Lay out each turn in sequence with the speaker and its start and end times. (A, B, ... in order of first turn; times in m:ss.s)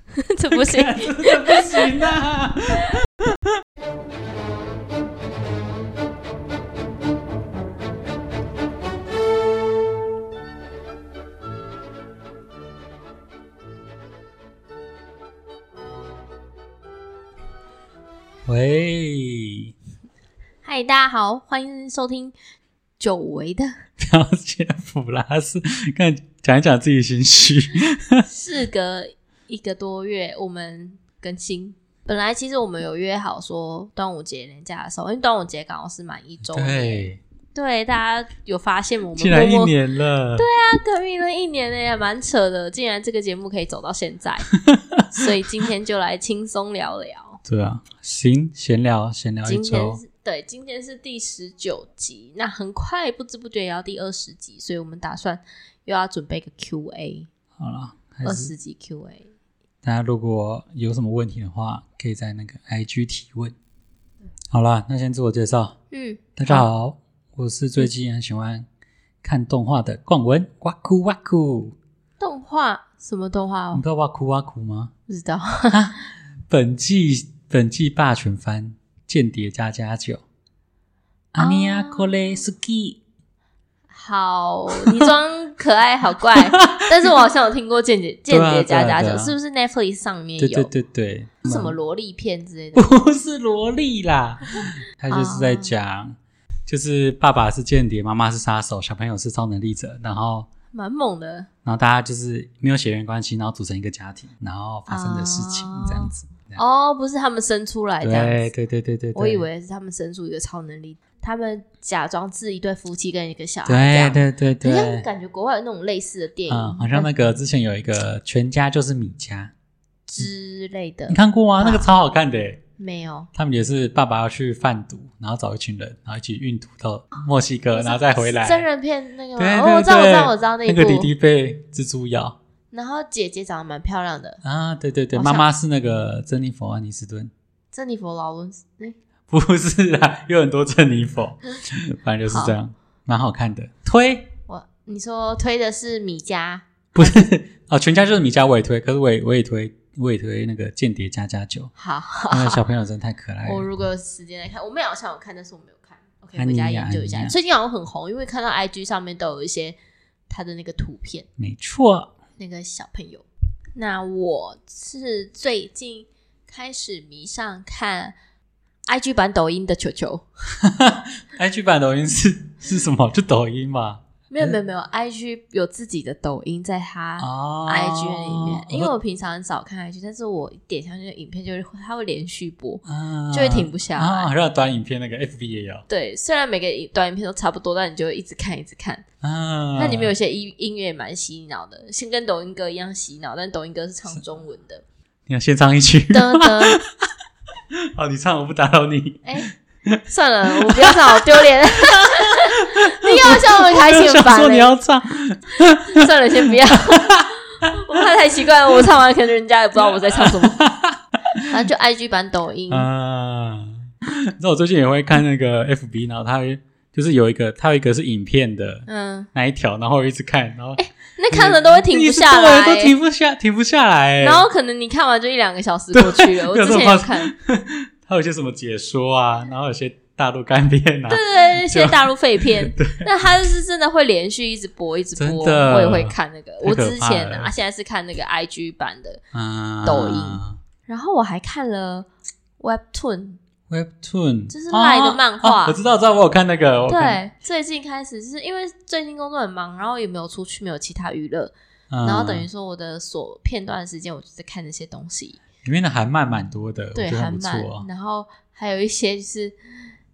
0:00.2-0:01.9 A
0:00.5-0:03.4 B
0:18.5-0:19.7 B
0:20.6-0:22.3 A
0:23.0-0:23.7 A
0:24.0-0:28.3 B
0:28.3-0:39.8 A
0:36.5-0:37.2 B
0:39.2-0:40.4 B
0:40.4-0:44.5 A
0:44.7-0:45.0 B
0:45.1-0:47.4 A
0:47.5-0:50.0 B
0:49.4-0:57.3 A
0:57.6-0:58.5 B
0:58.2-0:59.3 A
0:59.8-1:03.6 B
1:04.5-1:05.8 B
1:05.9-1:06.7 A
1:06.4-1:08.7 B
1:09.2-1:11.8 B
1:12.2-1:13.8 A
1:13.7-1:14.9 B
1:15.1-1:15.8 A
1:15.7-1:20.2 B
1:21.3-1:23.0 B
1:21.4-1:22.4 A
1:23.9-1:30.7 A
1:26.5-1:26.9 B
1:28.3-1:29.4 B
1:30.4-1:31.8 B
1:31.4-1:33.0 A
1:32.8-1:36.2 B
1:35.1-1:35.7 A
1:36.7-1:40.5 B
1:40.7-1:41.5 A
1:41.6-1:46.6 B
1:44.9-1:48.5 A
1:48.0-1:49.5 B
1:49.2-1:57.1 A
1:53.7-1:55.1 B
1:56.5-1:59.5 B
2:00.1-2:01.9 A
2:01.1-2:02.6 B
2:02.8-2:03.3 A
2:03.4-2:08.7 B
2:07.7-2:11.1 A
2:09.4-2:12.4 B
2:12.7-2:14.4 A
2:14.4-2:17.3 B
2:15.1-2:15.5 A
2:17.7-2:19.0 A
2:19.3-2:24.3 B
2:22.3-2:22.6 A
2:24.5-2:27.2 A
2:26.9-2:31.7 B
2:31.8-2:32.6 A
2:32.3-2:33.7 B
2:33.4-2:39.8 A
2:36.4-2:37.4 B
2:40.3-2:41.3 A
2:41.4-2:42.1 B
2:42.4-2:48.2 A
2:48.9-2:50.2 A
2:50.6-2:54.0 B
2:54.3-3:04.3 A
2:57.2-2:58.9 B
3:02.8-3:05.8 B
3:05.9-3:09.0 A
3:09.2-3:10.1 B
3:09.8-3:14.8 A
3:15.3-3:17.1 B
3:16.1-3:16.8 A
3:18.0-3:19.3 B
3:19.2-3:19.5 A
3:20.1-3:24.7 A
3:20.7-3:21.2 B
3:21.9-3:27.7 B
3:25.9-3:30.6 A
3:30.2-3:31.5 B
3:31.5-3:32.9 A
3:32.7-3:44.5 B
3:38.9-3:39.3 A
3:40.8-3:43.0 A
3:44.2-3:47.3 A
3:45.9-3:53.1 B
3:51.1-3:59.2 A
3:55.2-3:57.5 B
3:59.3-4:00.6 B
3:59.8-4:02.1 A
4:02.6-4:03.4 A
4:03.7-4:07.2 B
4:04.5-4:05.8 A
4:06.9-4:15.4 A
4:11.9-4:12.5 B
4:15.6-4:17.9 B
4:17.0-4:19.6 A